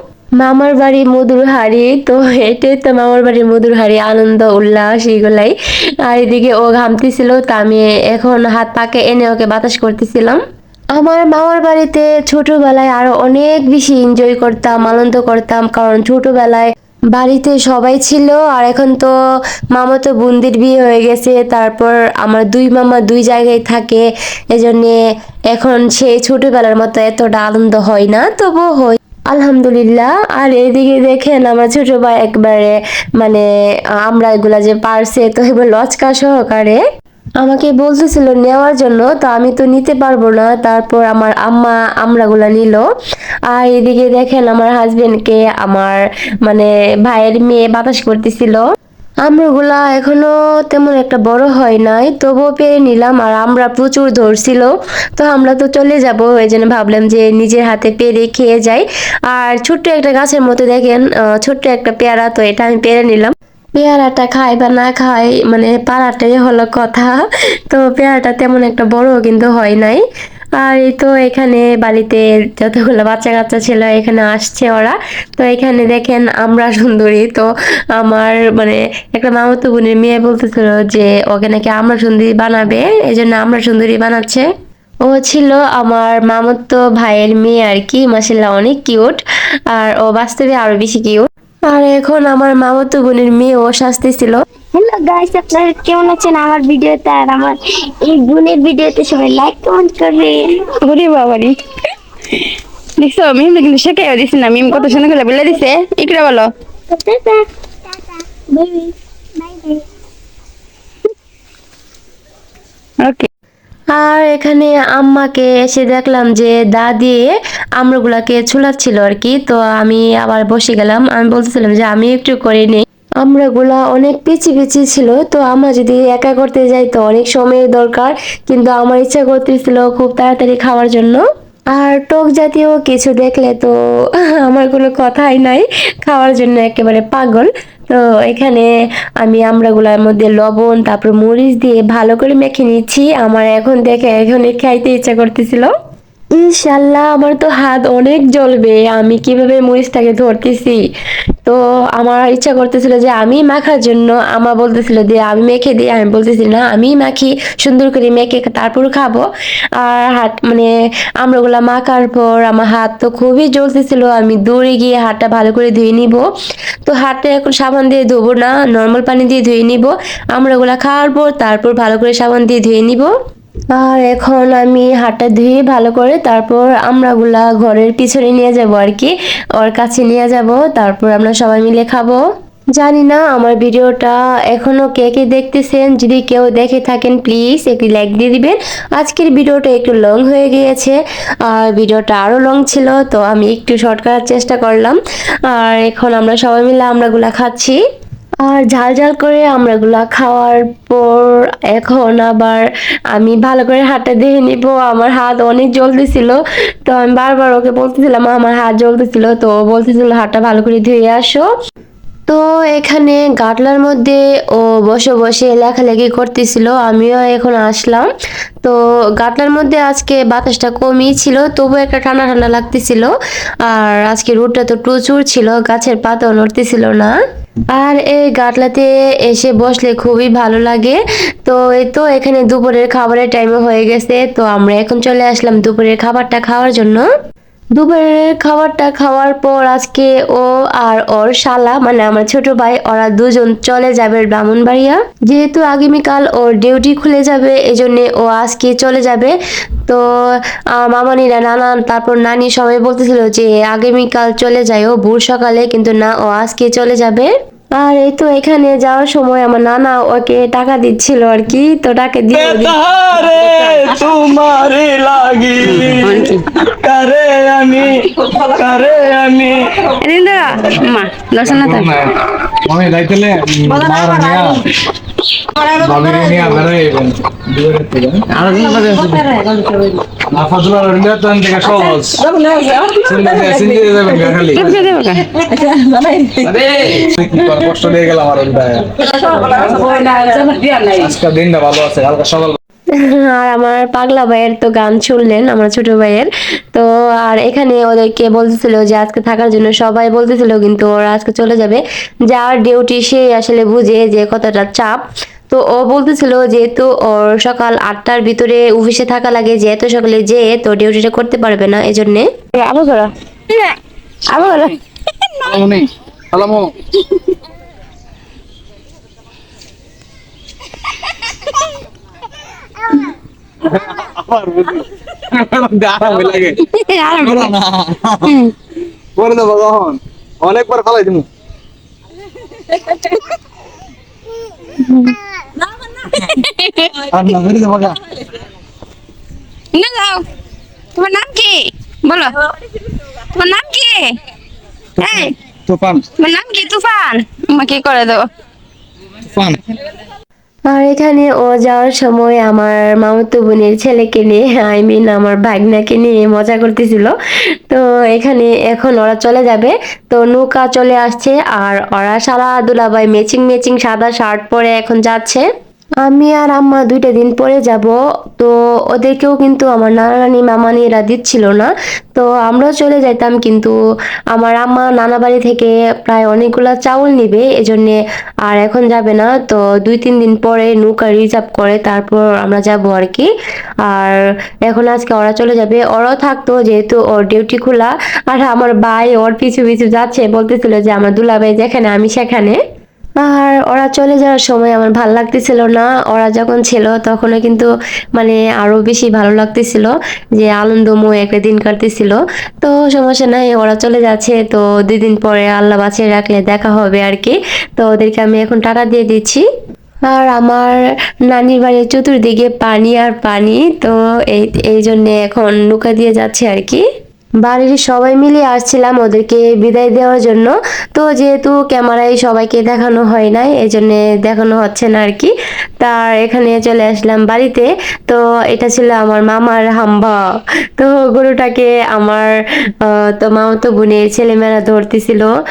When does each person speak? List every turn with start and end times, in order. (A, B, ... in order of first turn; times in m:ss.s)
0:00.4-0:10.4 A
0:10.9-0:19.1 A
0:19.7-0:25.0 A
0:25.5-0:33.4 A
0:34.0-0:36.8 A
0:37.4-0:42.8 A
0:43.5-0:48.6 A
0:49.2-1:10.0 A
1:10.6-1:24.5 A
1:25.0-1:29.2 A
1:29.7-1:34.4 A
1:34.7-1:40.6 B
1:40.7-1:41.6 C
1:42.3-1:46.5 C
1:46.9-1:49.8 B
1:53.0-1:53.3 C
1:53.9-2:13.7 A
2:14.4-2:18.7 A
2:19.2-2:25.7 A
2:26.4-2:30.8 A
2:31.4-2:39.2 A
2:39.8-2:40.7 A
2:41.2-2:46.2 A
2:46.8-2:53.1 A
2:53.7-3:02.2 A
3:02.8-3:15.0 A
3:15.5-3:17.8 A
3:18.4-3:31.5 A
3:32.3-3:38.1 A
3:38.6-3:43.1 A
3:43.6-3:47.2 A
3:47.7-3:57.0 A
3:57.8-4:09.3 A
4:10.8-4:22.8 A
4:22.3-4:29.8 D
4:25.6-4:26.4 C
4:29.8-4:32.1 C
4:31.4-4:34.6 D
4:33.9-4:34.4 C
4:35.7-4:39.3 D
4:38.4-4:40.0 C
4:40.2-4:42.3 D
4:41.7-4:46.5 C
4:43.0-4:44.9 D
4:46.4-4:49.8 D
4:49.0-4:51.1 C
4:51.0-4:52.6 D
4:52.9-5:05.0 A
5:05.5-5:12.3 A
5:12.6-5:13.7 C
5:14.3-5:15.5 C
5:15.4-5:16.7 D
5:23.6-5:26.6 D
5:26.6-5:27.6 C
5:27.2-5:28.4 D
5:28.2-5:28.5 C
5:29.2-5:31.3 D
5:32.9-5:33.2 C
5:34.8-5:35.2 C
5:35.9-5:37.0 C
5:37.0-5:38.0 D
5:39.7-5:40.2 C
5:41.0-5:42.5 C
5:43.3-5:44.1 C
5:45.0-5:45.3 C
5:45.0-5:46.0 D
5:46.2-5:48.2 C
5:49.2-5:49.6 D
5:50.7-5:57.1 A
5:57.7-6:05.4 A
6:06.0-6:13.7 A
6:14.3-6:23.3 A
6:23.9-6:32.6 A
6:33.2-6:49.4 A
6:50.1-6:50.8 A
6:51.3-6:56.8 A
6:57.4-7:10.2 A
7:10.8-7:12.3 A
7:12.8-7:15.3 A